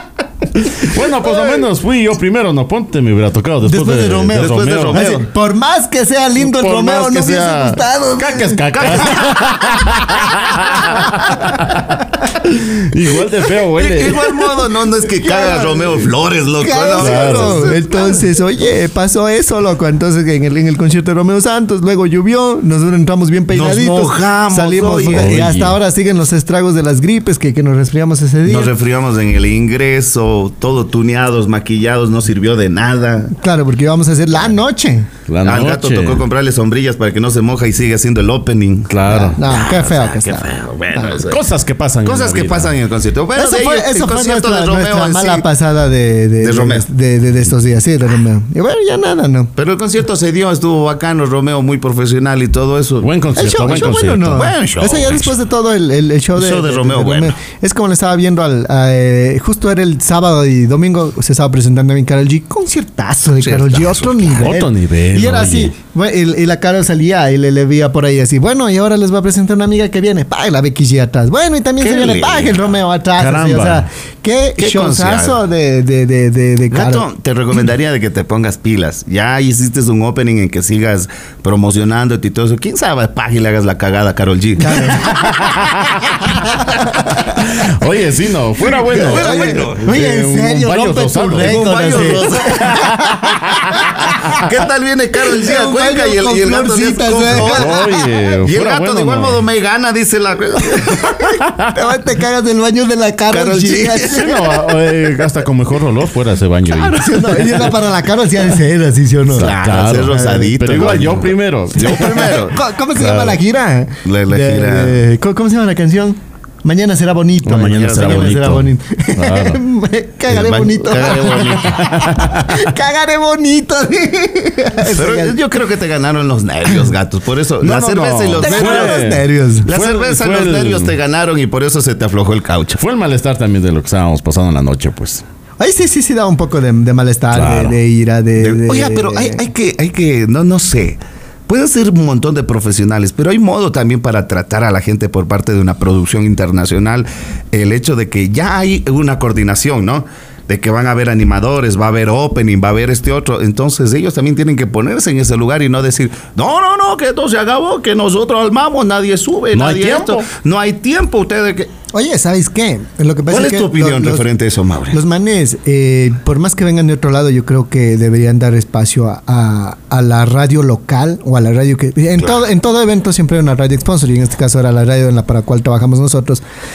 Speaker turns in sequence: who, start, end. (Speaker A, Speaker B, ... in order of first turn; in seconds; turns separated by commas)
Speaker A: 0.6-5.1, Speaker B: 3.6-11.7, Speaker C: 4.3-5.3, Speaker A: 6.4-14.5, Speaker C: 8.7-9.8, Speaker C: 13.8-18.2, Speaker B: 15.2-28.7, Speaker A: 17.0-17.7, Speaker C: 23.5-25.4, Speaker A: 25.1-25.8, Speaker C: 28.4-33.3, Speaker B: 33.3-35.1, Speaker A: 35.3-36.2, Speaker C: 35.4-41.4, Speaker A: 38.9-39.4, Speaker B: 39.0-41.2, Speaker A: 41.2-42.7, Speaker C: 42.0-45.4, Speaker B: 43.3-49.5, Speaker C: 46.4-46.8, Speaker C: 49.6-53.1, Speaker A: 53.0-54.4, Speaker B: 53.3-77.0, Speaker C: 53.6-55.4, Speaker C: 56.4-57.4, Speaker C: 63.4-64.5, Speaker A: 64.4-65.7, Speaker C: 71.8-72.6, Speaker A: 73.2-73.9, Speaker C: 74.6-75.4, Speaker C: 76.7-87.3, Speaker B: 84.6-85.1, Speaker A: 85.0-86.1, Speaker B: 86.4-87.2, Speaker A: 86.8-93.9, Speaker C: 88.6-90.0, Speaker B: 88.9-94.5, Speaker C: 91.3-92.8, Speaker C: 94.0-97.8, Speaker B: 95.2-98.1, Speaker A: 97.3-99.4, Speaker C: 98.4-101.2, Speaker B: 100.8-104.5, Speaker A: 101.4-101.7, Speaker C: 103.3-104.6, Speaker A: 104.0-107.6, Speaker B: 106.7-109.5, Speaker C: 109.3-112.6, Speaker A: 109.3-112.4, Speaker B: 110.0-110.5, Speaker B: 111.9-125.4, Speaker A: 112.9-113.4, Speaker C: 114.0-115.0, Speaker A: 117.4-119.6, Speaker C: 117.8-118.3, Speaker C: 120.3-121.8, Speaker A: 120.8-122.7, Speaker C: 124.9-129.0, Speaker A: 127.6-130.9, Speaker B: 128.4-129.7, Speaker C: 129.6-132.8, Speaker A: 132.8-135.2, Speaker B: 135.6-139.4, Speaker A: 137.3-137.8, Speaker C: 138.4-161.7, Speaker A: 159.5-160.2, Speaker B: 161.9-164.3, Speaker C: 163.3-165.0, Speaker B: 164.9-176.4